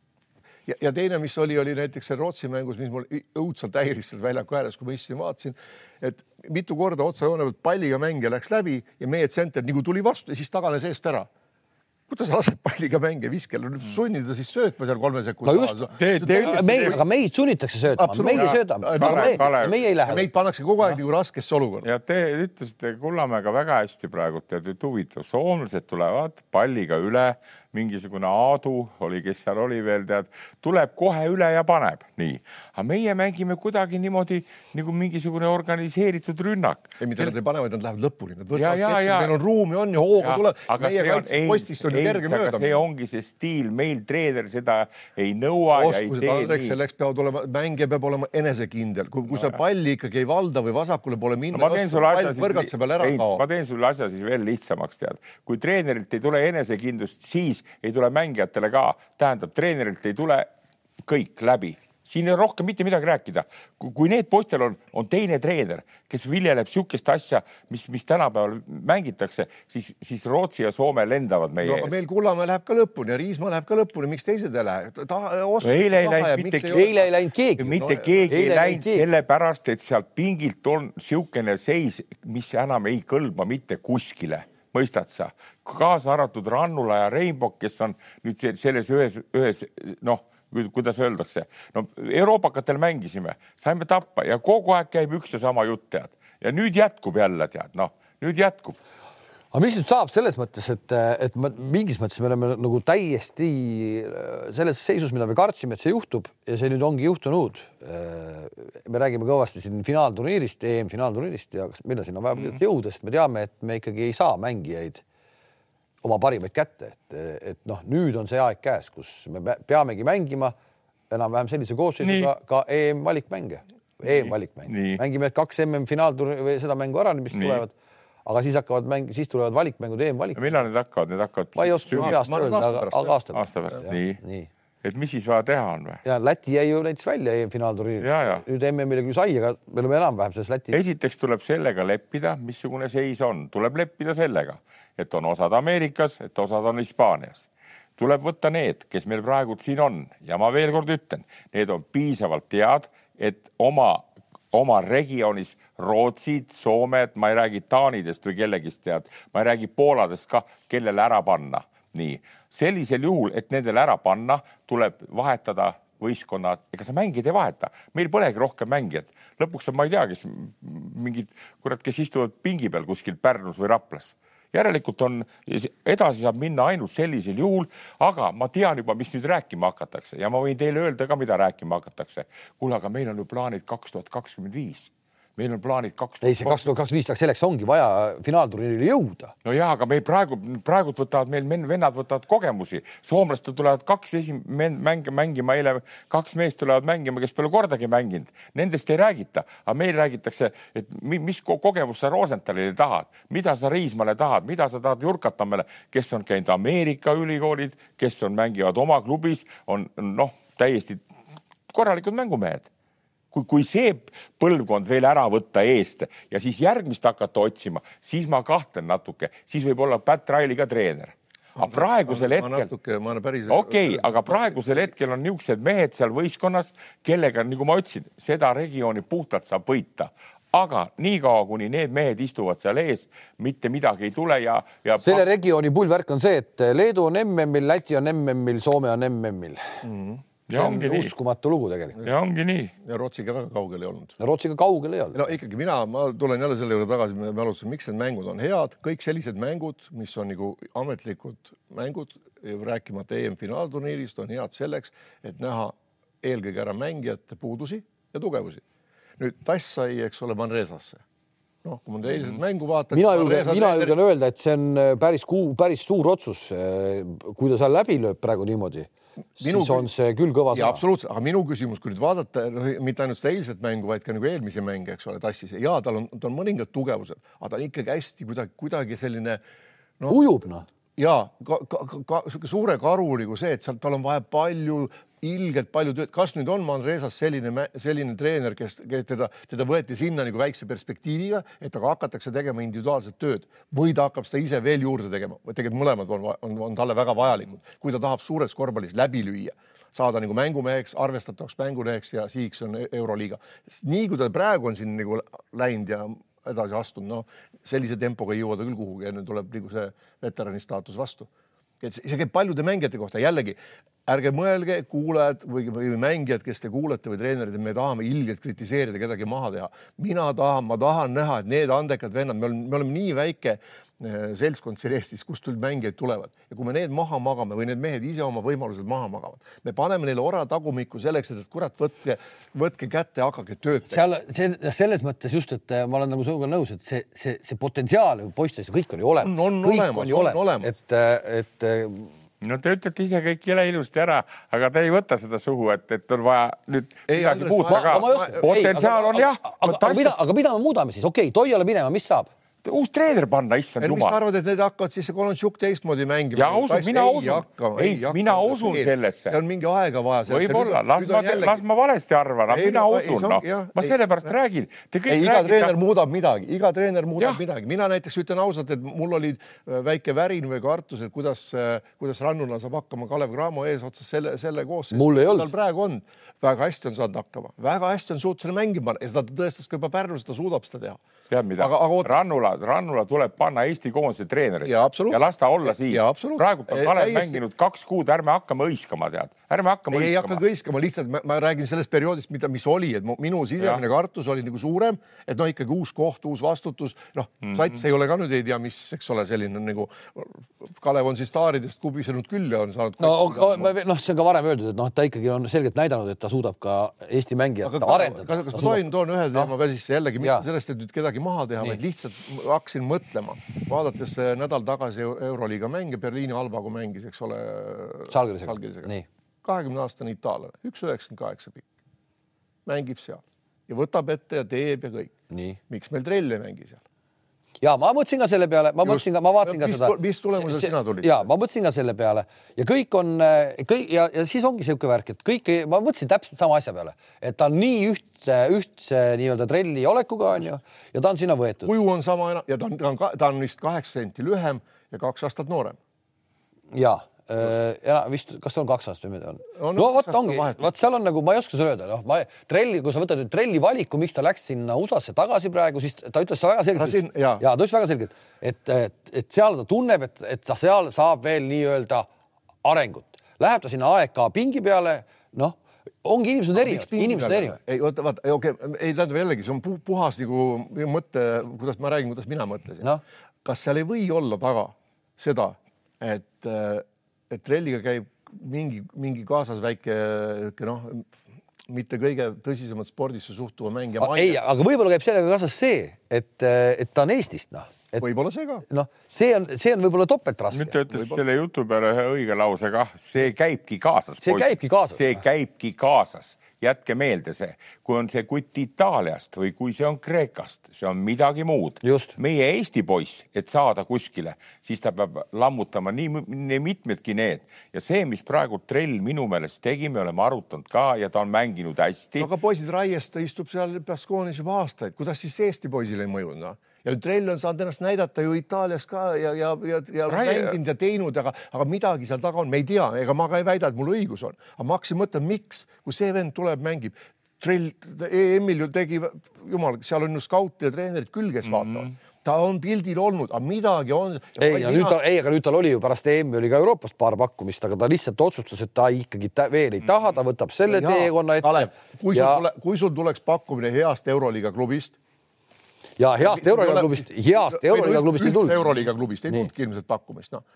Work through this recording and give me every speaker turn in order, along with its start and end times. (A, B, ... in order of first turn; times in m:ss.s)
0:00.7-0:11.3 A
0:12.1-0:17.0 A
0:15.4-0:20.3 B
0:16.0-0:17.0 C
0:18.0-0:21.9 A
0:18.3-0:19.8 C
0:21.8-0:37.3 C
0:37.0-0:42.8 A
0:38.5-0:39.4 C
0:40.2-0:46.8 C
0:45.8-0:53.4 A
0:51.5-1:00.5 C
1:01.0-1:12.0 C
1:11.6-1:17.1 A
1:15.6-1:16.9 C
1:16.7-1:19.0 B
1:17.6-1:38.8 C
1:17.7-1:18.5 A
1:39.5-1:55.0 B
1:56.0-2:00.6 B
2:01.1-2:07.7 B
2:02.0-2:02.3 C
2:04.0-2:05.0 C
2:07.3-2:07.6 C
2:08.3-2:10.6 B
2:10.4-2:12.2 C
2:11.6-2:14.5 B
2:12.0-2:13.2 A
2:13.3-2:14.2 C
2:14.8-2:16.0 C
2:16.0-2:20.8 B
2:18.0-2:18.4 C
2:20.7-3:06.7 C
3:06.2-3:09.3 B
3:09.4-3:31.0 C
3:31.7-3:32.7 C
3:33.3-3:42.7 C
3:41.6-3:44.8 A
3:43.5-3:55.2 C
3:55.0-3:59.8 B
3:59.8-4:00.2 A
4:00.5-4:01.1 C
4:00.5-4:02.0 B
4:02.0-4:02.7 C
4:02.8-4:04.2 A
4:04.2-4:05.2 B
4:05.1-4:18.6 A
4:19.2-4:21.0 A
4:21.6-4:24.0 A
4:22.9-4:30.8 B
4:29.4-4:29.9 A
4:30.5-4:39.4 A
4:40.1-4:40.6 B
4:41.0-5:11.3 A
5:11.8-5:34.0 A
5:33.9-5:42.1 B
5:39.2-5:40.7 A
5:42.4-5:50.2 C
5:47.1-5:49.1 A
5:47.7-5:52.3 B
5:52.6-5:54.2 C
5:53.8-6:01.6 A
5:56.4-5:59.4 C
6:00.3-6:05.7 C
6:02.5-6:04.0 A
6:05.1-6:21.0 A
6:14.9-6:15.5 B
6:21.3-6:30.4 C
6:21.6-6:22.1 A
6:24.6-6:27.4 A
6:29.9-6:43.7 A
6:37.4-6:37.8 C
6:43.0-6:48.8 B
6:47.6-6:58.9 A
6:58.1-6:59.1 B
6:59.4-7:01.7 A
7:02.7-7:05.1 A
7:05.3-7:05.6 B
7:05.7-7:06.8 A
7:07.6-7:21.7 B
7:08.8-7:11.3 A
7:21.6-7:25.8 A
7:26.7-7:42.1 B
7:29.6-7:30.7 A
7:36.8-7:37.4 A
7:42.6-7:47.6 B
7:46.6-7:52.9 A
7:53.4-8:01.1 A
8:01.7-8:04.4 A
8:04.0-8:08.1 B
8:08.0-8:08.6 A
8:08.7-8:10.8 B
8:10.5-8:32.3 C
8:10.9-8:11.2 A
8:14.2-8:15.2 B
8:21.8-8:22.2 B
8:32.2-8:55.0 A
8:40.1-8:40.6 C
8:51.4-8:52.0 C
8:54.4-9:02.4 B
9:00.7-9:05.0 A
9:06.0-9:08.8 B
9:06.2-9:10.4 A